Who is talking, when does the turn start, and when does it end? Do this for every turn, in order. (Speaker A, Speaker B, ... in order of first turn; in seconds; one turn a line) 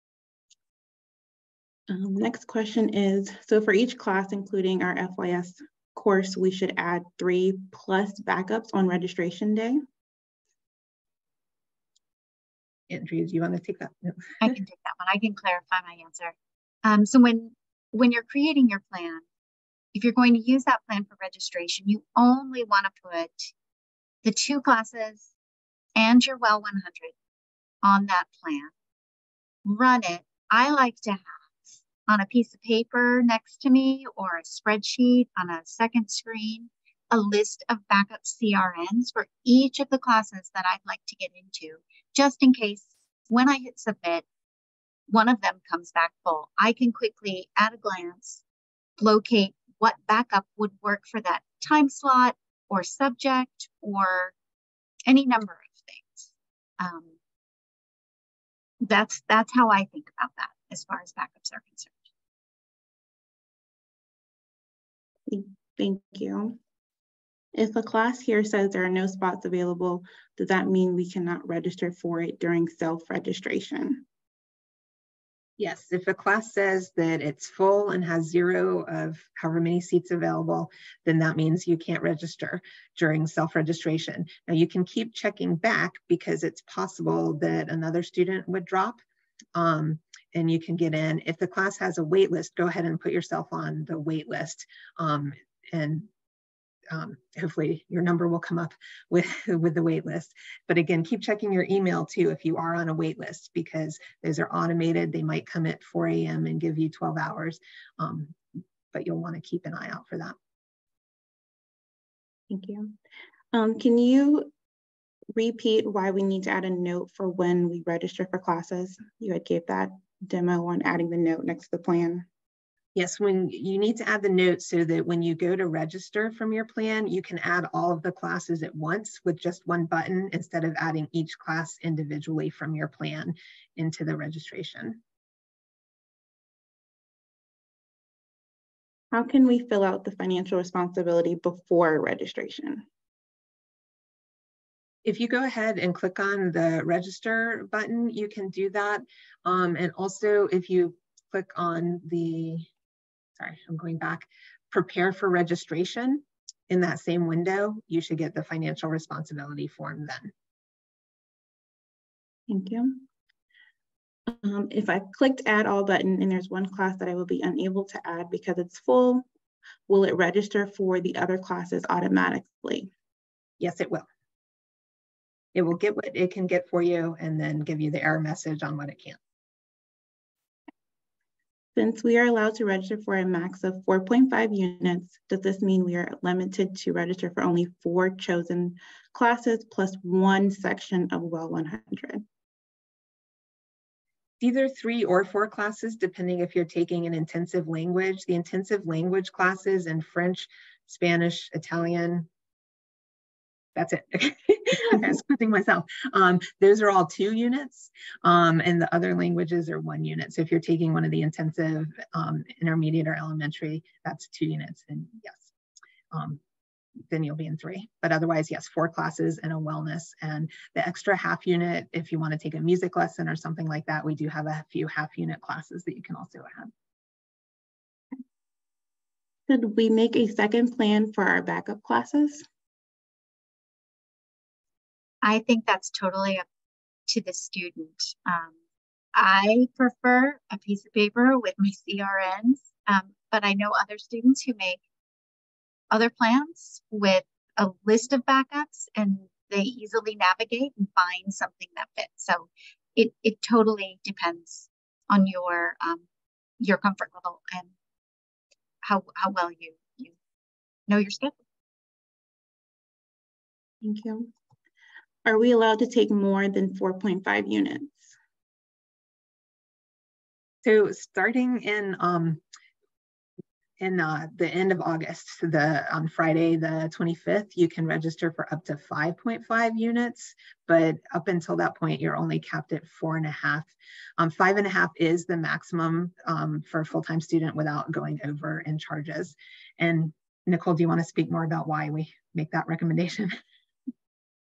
Speaker A: 1.9-9.8
Speaker B: 12.9-14.6
Speaker C: 14.4-19.2
Speaker C: 19.9-23.5
Speaker C: 24.2-25.3
Speaker C: 25.9-27.1
Speaker C: 27.8-28.7
Speaker C: 29.6-44.3
Speaker C: 45.1-48.4
Speaker C: 49.0-54.3
Speaker C: 55.1-57.1
Speaker C: 58.8-61.9
Speaker A: 65.3-66.6
Speaker A: 67.5-74.0
Speaker B: 75.6-89.0
Speaker B: 89.5-96.1
Speaker B: 96.9-108.4
Speaker B: 108.9-110.4
Speaker A: 112.5-113.0
Speaker A: 113.5-114.5
Speaker A: 115.3-122.3
Speaker B: 123.0-135.0
Speaker A: 139.1-142.8
Speaker B: 145.0-152.7
Speaker B: 153.4-160.3
Speaker A: 162.5-163.1
Speaker A: 164.3-169.3
Speaker A: 169.9-172.9
Speaker B: 173.6-174.1
Speaker B: 175.6-179.2
Speaker A: 181.8-192.2
Speaker B: 194.4-202.3
Speaker B: 203.8-215.5
Speaker B: 216.1-216.4
Speaker B: 217.1-226.7
Speaker A: 229.5-232.4
Speaker C: 235.2-236.4
Speaker C: 237.1-238.5
Speaker C: 239.1-244.8
Speaker C: 245.9-256.0
Speaker C: 256.6-257.7
Speaker C: 258.8-260.1
Speaker C: 260.9-261.4
Speaker A: 263.8-264.3
Speaker A: 265.2-268.1
Speaker B: 270.6-272.4
Speaker B: 273.8-293.3